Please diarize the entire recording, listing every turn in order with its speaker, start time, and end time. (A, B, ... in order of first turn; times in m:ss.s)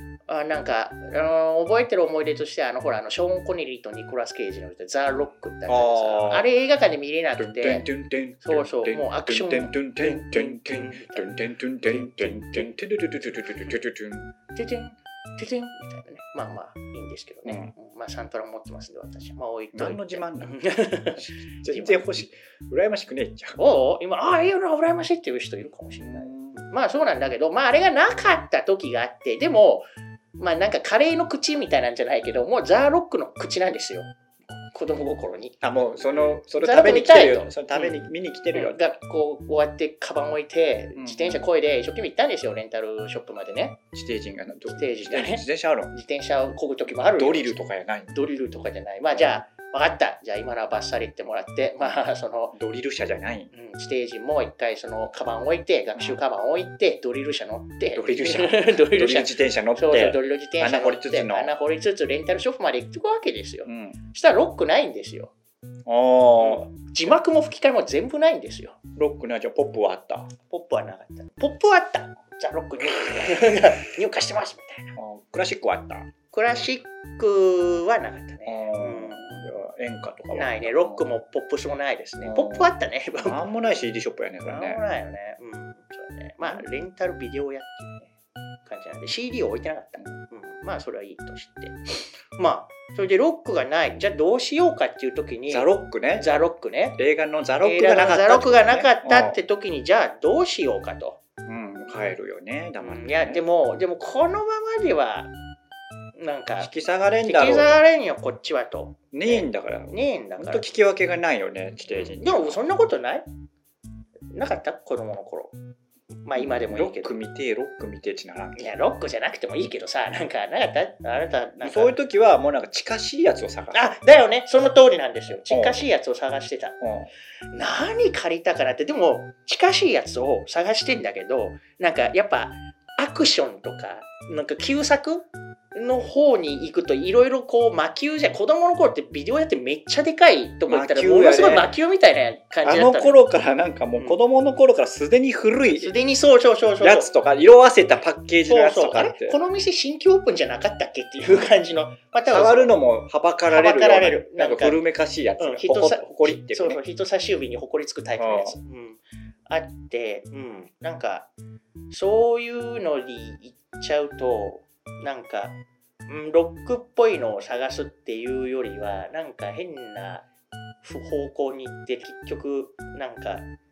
0:00.3-0:07.9 A
0:05.7-0:06.5 B
0:07.4-0:14.3 B
0:08.4-0:12.8 A
0:14.5-0:22.2 A
0:17.4-0:17.7 B
0:19.7-0:23.6 B
0:23.6-0:43.8 A
0:25.9-0:26.7 B
0:35.6-0:38.8 B
0:41.0-0:41.5 B
0:43.9-0:45.9 B
0:44.7-0:52.6 A
0:47.2-0:48.2 B
0:49.1-0:49.4 B
0:51.8-0:53.5 B
0:53.5-1:05.3 A
0:57.9-1:01.5 B
1:03.6-1:04.0 B
1:05.9-1:06.7 B
1:06.4-1:08.8 A
1:09.0-1:10.3 B
1:10.5-1:15.0 A
1:15.0-1:16.1 B
1:16.3-1:19.5 A
1:18.5-1:21.0 B
1:20.3-1:23.4 A
1:22.2-1:24.8 B
1:24.4-1:28.1 A
1:28.6-1:37.0 A
1:35.5-1:36.3 B
1:37.0-1:39.4 B
1:37.6-1:41.2 A
1:41.4-1:43.4 B
1:42.8-1:45.3 A
1:46.2-1:46.7 A
1:46.6-1:47.8 B
1:47.3-1:50.7 A
1:49.1-1:52.6 B
1:51.9-1:53.3 A
1:54.3-1:55.6 A
1:56.2-1:57.2 A
1:56.4-1:58.7 B
1:58.6-2:02.0 A
2:01.6-2:03.8 B
2:03.7-2:06.8 A
2:05.4-2:05.8 B
2:06.8-2:07.1 B
2:07.5-2:23.2 A
2:20.7-2:21.7 B
2:22.6-2:26.0 B
2:25.8-2:27.1 A
2:26.8-2:29.4 B
2:28.5-2:32.8 A
2:31.2-2:31.5 B
2:32.3-2:36.8 B
2:33.5-2:34.8 A
2:35.4-2:41.3 A
2:38.2-2:38.6 B
2:41.9-2:50.2 A
2:50.8-2:53.5 A